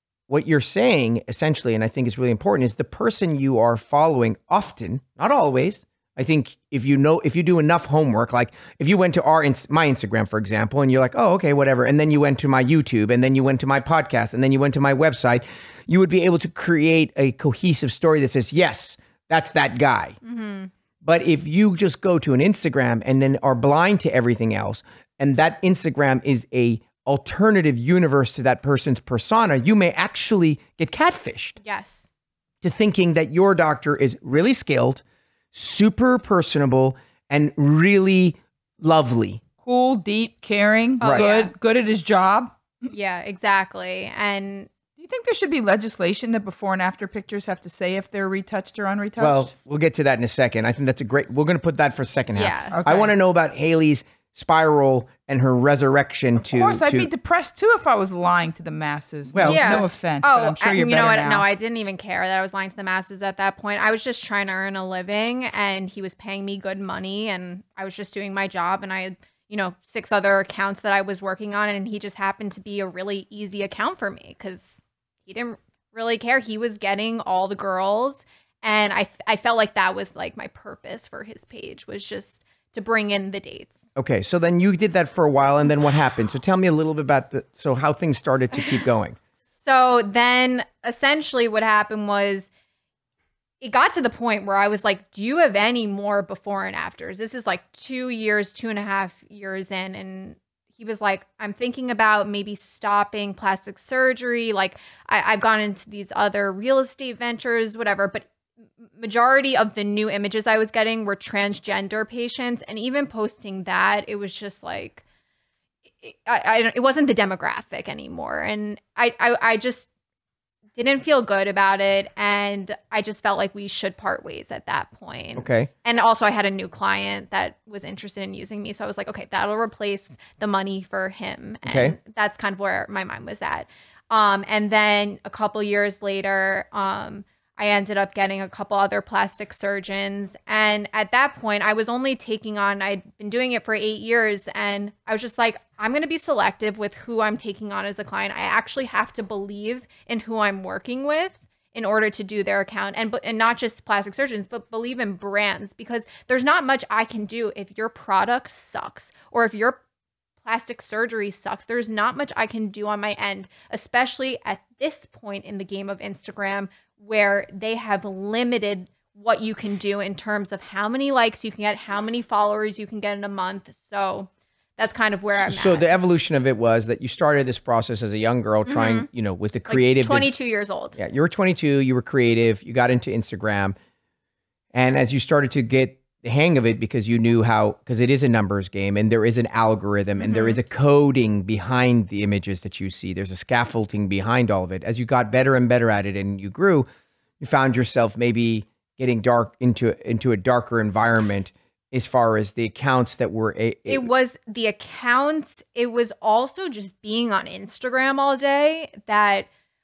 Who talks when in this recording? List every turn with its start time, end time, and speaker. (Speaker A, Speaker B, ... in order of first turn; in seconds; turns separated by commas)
Speaker A: 0.3-20.2, Speaker B: 20.2-20.7, Speaker A: 21.0-31.6, Speaker B: 31.6-32.1, Speaker A: 32.6-39.4, Speaker C: 39.6-42.9, Speaker A: 41.0-41.2, Speaker B: 41.0-41.5, Speaker B: 42.9-44.7, Speaker C: 45.0-49.5, Speaker A: 49.2-57.1, Speaker B: 52.3-52.8, Speaker C: 52.7-53.1, Speaker C: 56.4-61.4, Speaker A: 59.3-59.8, Speaker B: 59.4-83.9, Speaker A: 84.0-89.2, Speaker B: 89.6-92.5, Speaker B: 93.6-108.3, Speaker B: 109.0-115.0, Speaker B: 116.0-119.9, Speaker B: 120.8-159.8, Speaker A: 125.4-125.7, Speaker A: 131.6-131.9, Speaker B: 160.4-175.8, Speaker A: 175.3-180.3, Speaker B: 178.7-179.1, Speaker B: 179.7-181.0, Speaker A: 180.9-183.8, Speaker A: 184.7-196.9, Speaker B: 190.2-190.6, Speaker A: 197.4-204.1, Speaker B: 203.9-209.5